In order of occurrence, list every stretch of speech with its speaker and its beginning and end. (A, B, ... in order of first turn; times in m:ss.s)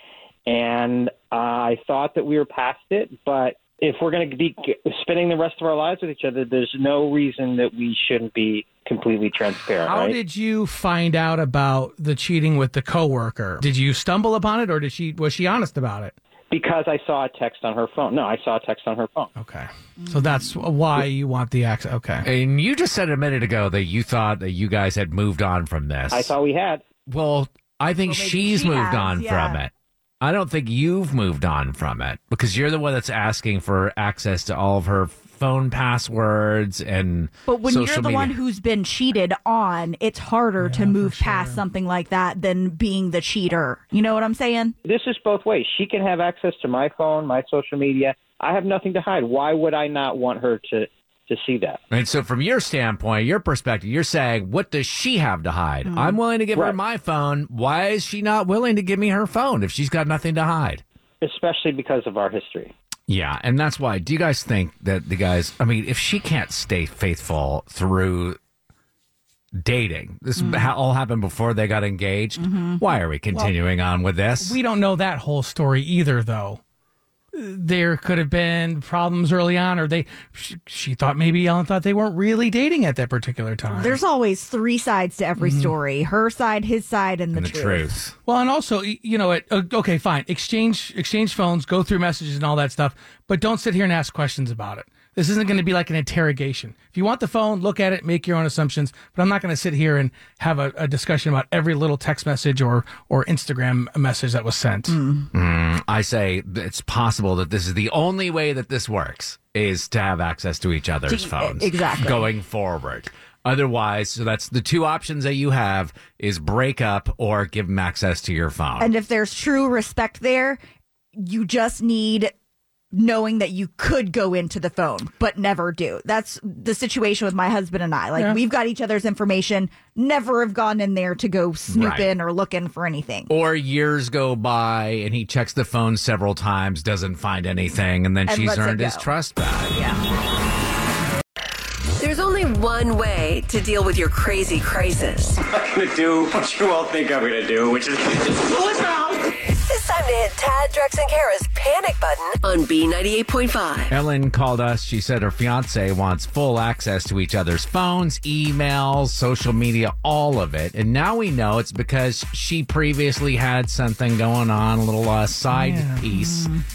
0:00.4-0:10.2 A
0:09.8-0:16.1 B
0:16.5-0:19.3 A
0:19.4-0:22.2 B
0:20.0-0:20.6 C
0:22.2-0:26.3 D
0:26.1-0:26.8 A
0:27.1-0:38.3 D
0:28.0-0:29.6 C
0:37.4-0:44.7 C
0:40.6-0:41.6 B
0:44.8-0:51.8 A
0:51.9-1:00.8 D
0:55.8-0:56.2 C
1:01.2-1:02.7 A
1:03.1-1:08.4 D
1:09.6-1:14.6 D
1:10.4-1:10.7 C
1:12.4-1:12.8 C
1:14.4-1:16.6 B
1:17.3-1:24.0 B
1:23.7-1:27.9 C
1:25.4-1:25.7 B
1:27.3-1:28.2 D
1:28.2-1:45.0 B
1:44.9-1:45.3 C
1:45.3-1:58.9 D
1:51.1-1:52.3 C
1:58.8-2:00.6 C
2:01.2-2:02.3 C
2:02.9-2:13.3 C
2:11.7-2:12.1 D
2:13.3-2:19.8 D
2:18.2-2:19.1 C
2:19.7-2:20.0 C
2:22.0-2:25.4 E
2:25.4-2:29.4 F
2:29.5-2:33.9 E
2:33.9-2:46.5 D
2:45.5-2:46.0 B
2:46.1-2:46.6 C